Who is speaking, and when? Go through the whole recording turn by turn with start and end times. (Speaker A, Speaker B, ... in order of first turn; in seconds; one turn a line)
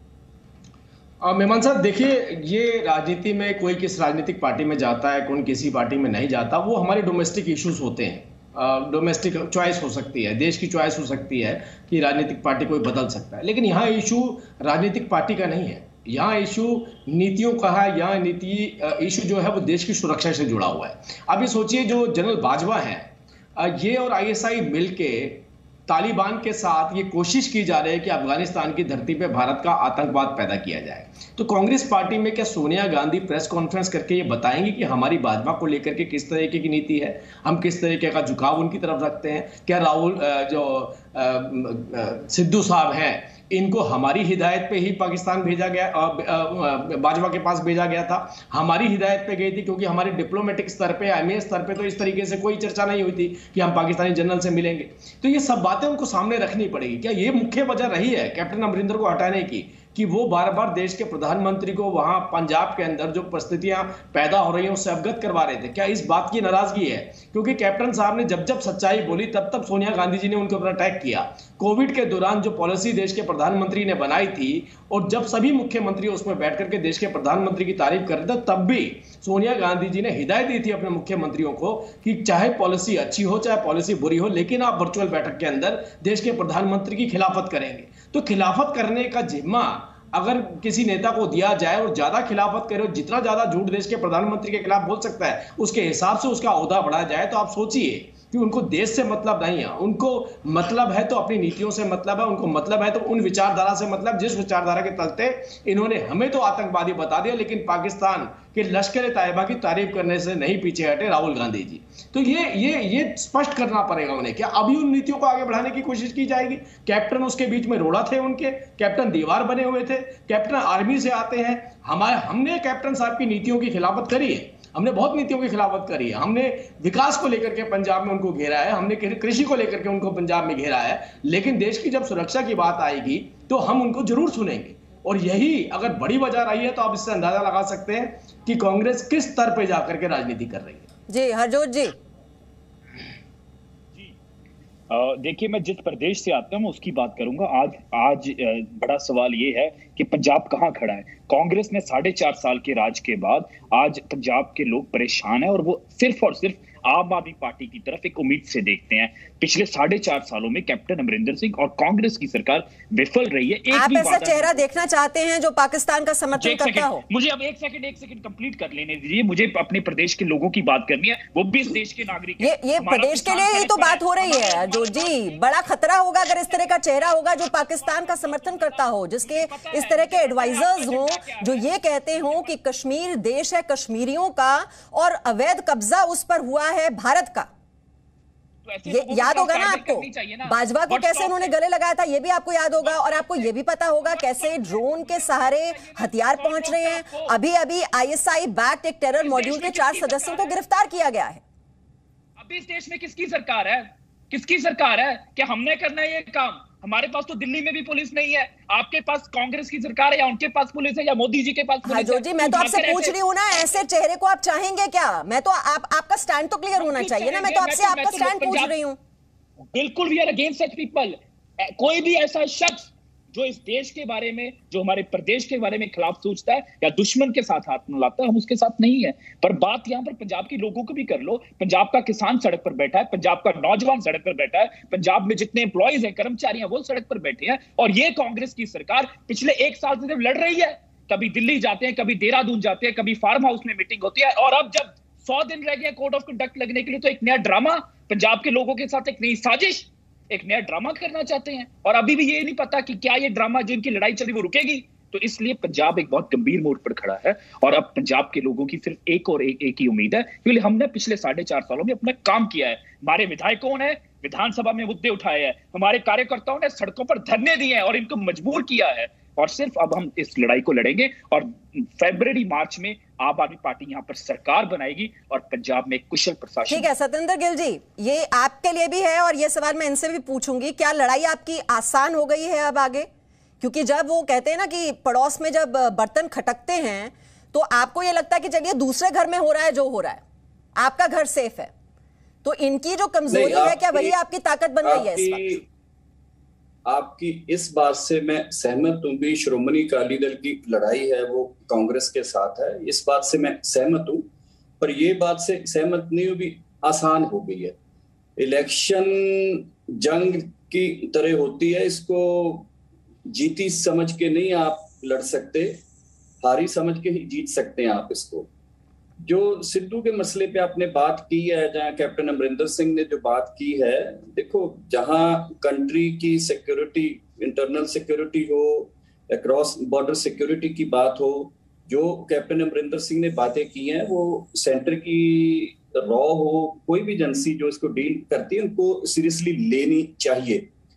Speaker A: 1.2-140.8
Speaker B: 141.1-141.9
Speaker C: 144.9-164.6
Speaker B: 163.7-167.0
Speaker C: 166.4-175.4
Speaker B: 172.4-187.5
Speaker C: 176.2-182.5
Speaker C: 188.6-191.5
Speaker B: 188.9-201.4
Speaker C: 192.8-193.5
Speaker C: 194.0-197.3
Speaker C: 199.2-200.6
Speaker C: 202.4-213.8
Speaker B: 211.9-219.0
Speaker C: 216.8-218.7
Speaker C: 219.7-276.9
Speaker B: 276.7-283.1
Speaker B: 283.6-290.2
Speaker B: 290.8-291.7
Speaker B: 292.4-295.5
Speaker D: 293.3-294.2
Speaker D: 294.8-295.6
Speaker D: 296.9-304.3
Speaker D: 304.8-307.8
Speaker D: 308.4-312.7
Speaker D: 313.3-315.8
Speaker D: 316.4-318.5
Speaker D: 319.2-340.7